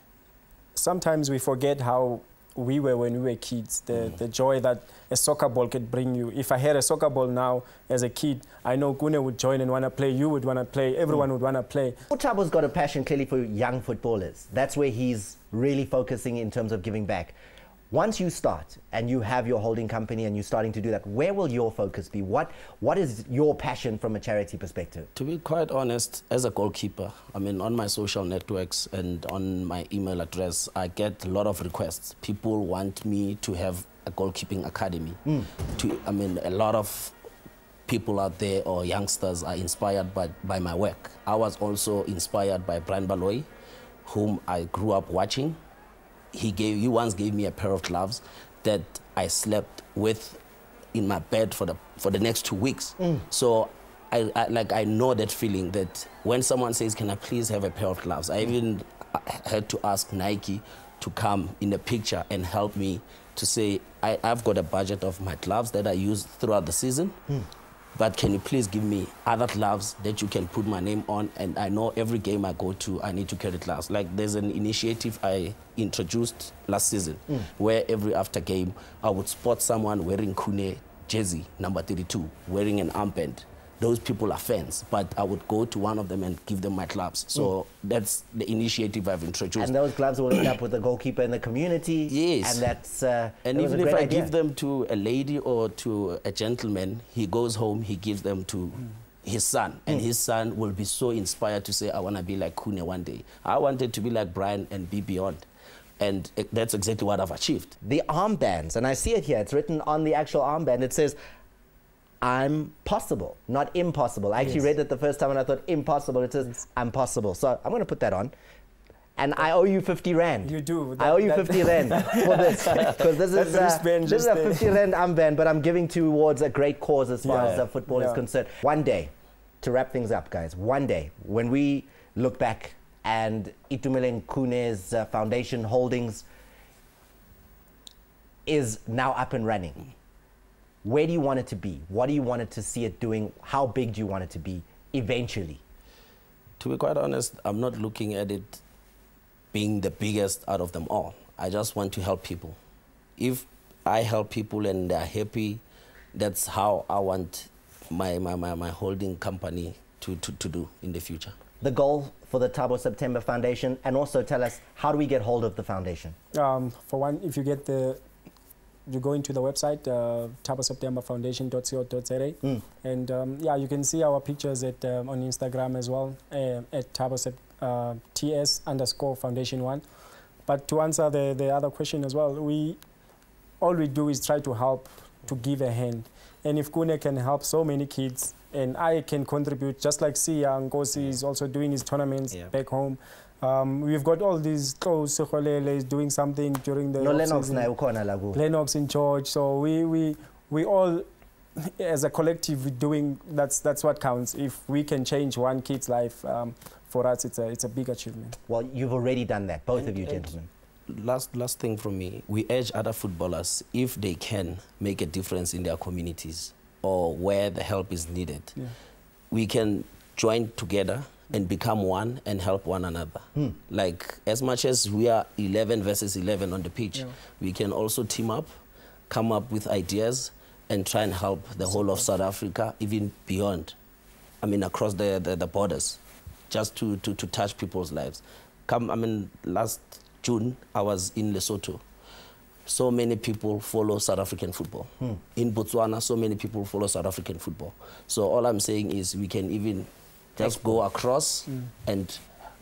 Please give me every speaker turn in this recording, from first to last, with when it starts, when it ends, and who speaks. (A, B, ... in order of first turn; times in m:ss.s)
0:00.8-0:12.0 A
0:12.1-0:17.3 B
0:17.9-0:25.1 B
0:25.2-0:37.1 C
0:37.9-0:43.5 C
0:44.0-0:45.6 C
0:46.3-0:50.4 C
0:50.9-1:07.2 C
1:08.0-1:29.8 C
1:29.6-1:34.3 B
1:32.1-1:32.7 C
1:33.4-1:45.4 C
1:46.0-1:47.7 C
1:47.8-1:51.2 B
1:52.2-1:58.3 B
1:59.2-2:16.2 B
2:00.4-2:04.8 A
2:07.2-2:08.2 A
2:07.3-2:07.6 C
2:18.5-2:19.8 B
2:20.8-2:25.6 B
2:26.6-2:28.6 C
2:29.5-2:32.6 C
2:33.2-2:35.6 C
2:36.1-2:41.4 C
2:41.6-2:46.2 B
2:46.3-2:48.0 A
2:48.9-2:59.8 A
3:00.5-3:02.8 A
3:03.6-3:17.7 A
3:17.0-3:18.4 B
3:18.3-3:21.0 A
3:21.6-3:28.4 A
3:28.5-3:30.5 B
3:29.8-3:30.3 C
3:30.9-3:38.6 C
3:39.3-3:48.5 C
3:49.1-3:53.8 C
3:54.4-4:01.8 C
4:02.7-4:12.2 C